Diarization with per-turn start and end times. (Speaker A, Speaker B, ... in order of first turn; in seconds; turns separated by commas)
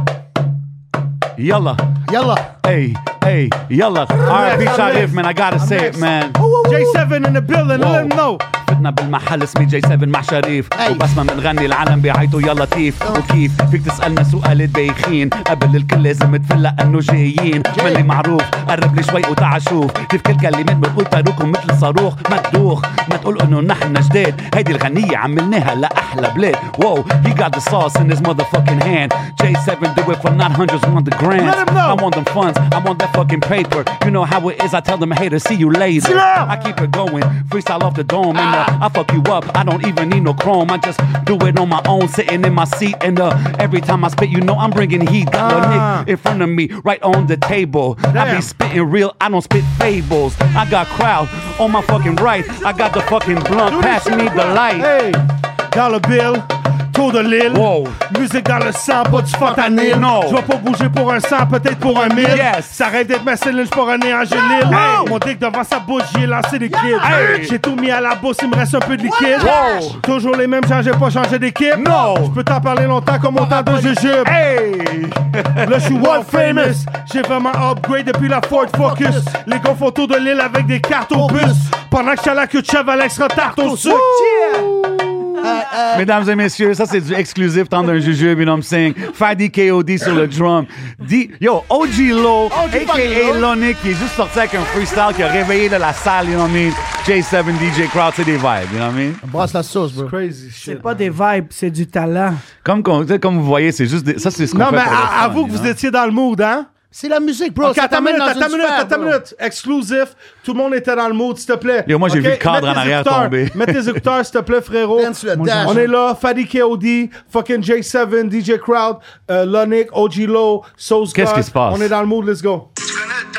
Speaker A: 1.4-1.9, Speaker B: 2.1-2.5, Speaker A: 2.6-6.4, Speaker C: 4.2-8.4, Speaker B: 6.4-7.0, Speaker A: 7.7-54.9, Speaker B: 10.8-11.1, Speaker B: 17.7-18.0, Speaker C: 31.4-32.0, Speaker B: 36.0-36.5, Speaker B: 38.4-38.7, Speaker C: 45.3-46.1, Speaker C: 48.1-48.5, Speaker C: 53.6-74.3, Speaker A: 57.5-58.0, Speaker B: 59.0-60.1, Speaker A: 59.9-60.4, Speaker B: 62.0-62.5, Speaker A: 62.2-62.8, Speaker B: 64.4-65.2, Speaker A: 64.7-65.2, Speaker B: 66.7-67.4, Speaker A: 67.0-67.6, Speaker B: 69.0-70.0, Speaker A: 69.4-70.0, Speaker A: 71.7-72.4, Speaker B: 73.4-73.9, Speaker A: 74.2-75.9, Speaker C: 75.6-84.7, Speaker B: 75.9-76.8, Speaker B: 78.5-79.3, Speaker B: 81.1-81.7, Speaker B: 83.4-86.1, Speaker A: 85.9-99.2, Speaker B: 92.5-93.5, Speaker B: 99.2-100.1, Speaker C: 100.0-101.1, Speaker D: 100.6-102.4, Speaker A: 102.6-105.7, Speaker C: 104.5-106.7, Speaker B: 106.9-109.2, Speaker C: 107.6-122.7, Speaker A: 111.9-114.0, Speaker B: 114.9-115.8, Speaker D: 115.3-115.9, Speaker A: 121.1-121.9